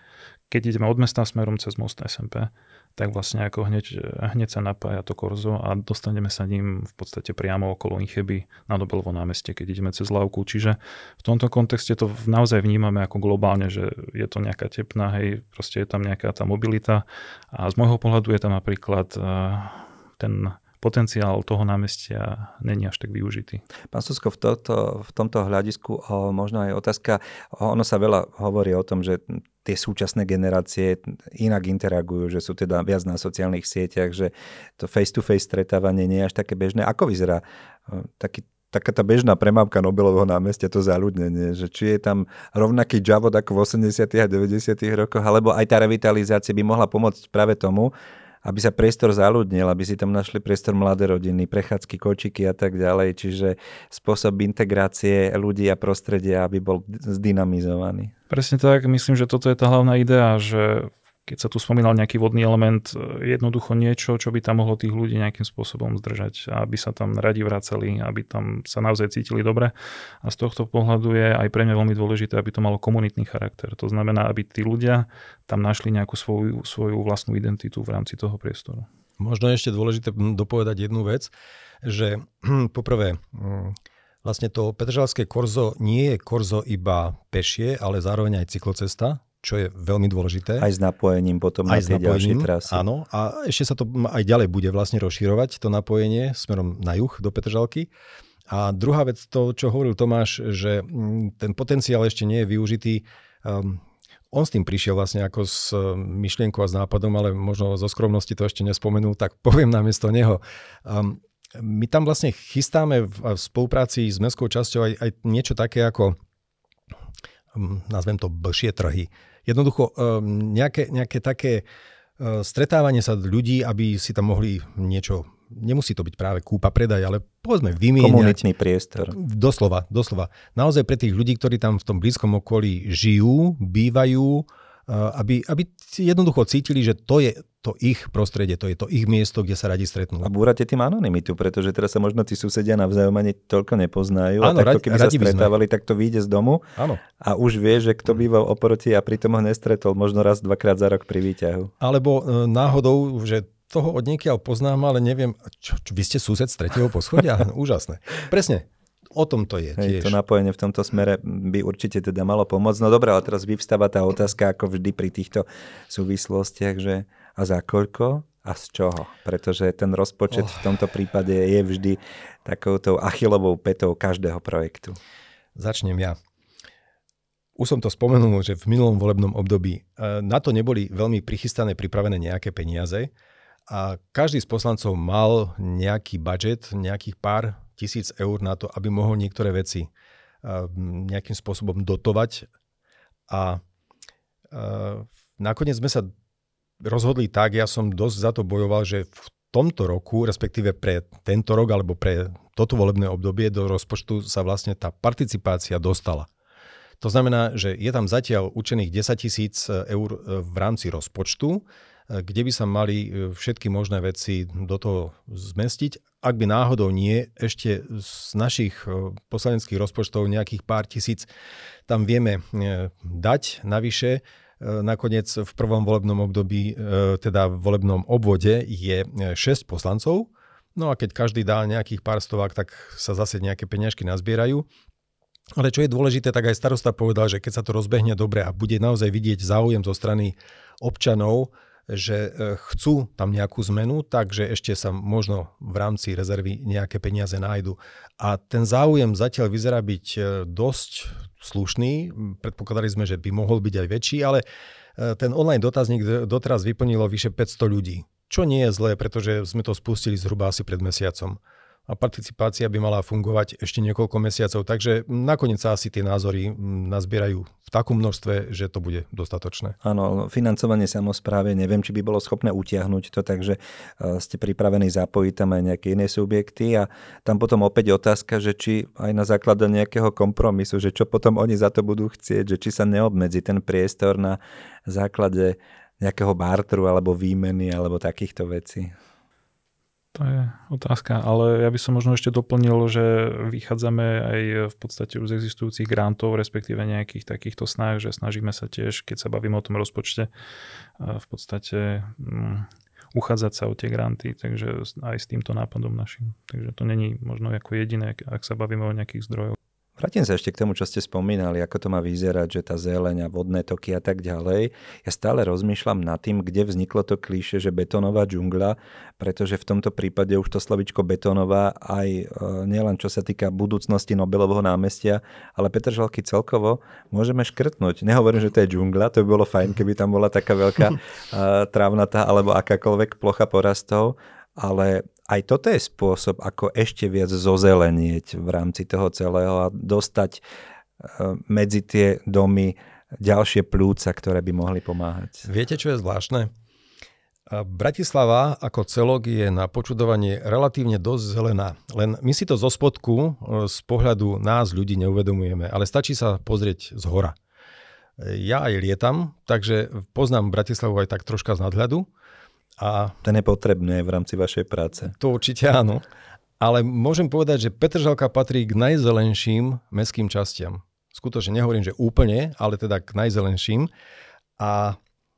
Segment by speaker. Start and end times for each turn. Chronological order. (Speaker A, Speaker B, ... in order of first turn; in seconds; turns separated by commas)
Speaker A: 0.5-23.6, Speaker B: 23.9-47.9, Speaker B: 48.4-58.1, Speaker A: 58.3-78.9, Speaker C: 79.2-81.3, Speaker C: 81.8-90.7, Speaker B: 90.6-92.8, Speaker C: 91.7-97.9, Speaker C: 98.5-116.2, Speaker C: 117.5-121.6, Speaker C: 122.2-128.4, Speaker B: 128.0-129.2, Speaker C: 129.1-140.3, Speaker B: 140.2-146.6, Speaker C: 144.4-145.5, Speaker C: 146.8-147.0, Speaker B: 147.2-151.7, Speaker C: 151.8-160.2, Speaker B: 159.8-175.0, Speaker C: 175.6-176.2, Speaker C: 177.6-183.1, Speaker C: 183.7-189.9, Speaker C: 190.4-192.5, Speaker C: 193.3-193.6, Speaker C: 194.5-196.1, Speaker C: 196.8-206.3, Speaker C: 207.0-221.3, Speaker C: 221.9-234.7, Speaker C: 235.6-254.4, Speaker C: 255.0-269.8, Speaker B: 269.8-288.9, Speaker A: 290.1-300.3, Speaker A: 301.0-309.6, Speaker B: 310.0-340.4, Speaker B: 341.0-345.4, Speaker C: 345.4-346.5, Speaker C: 347.5-357.4, Speaker C: 358.2-362.1, Speaker C: 362.8-363.2, Speaker B: 363.2-365.1, Speaker C: 365.1-366.0, Speaker C: 366.6-373.9, Speaker C: 374.6-375.0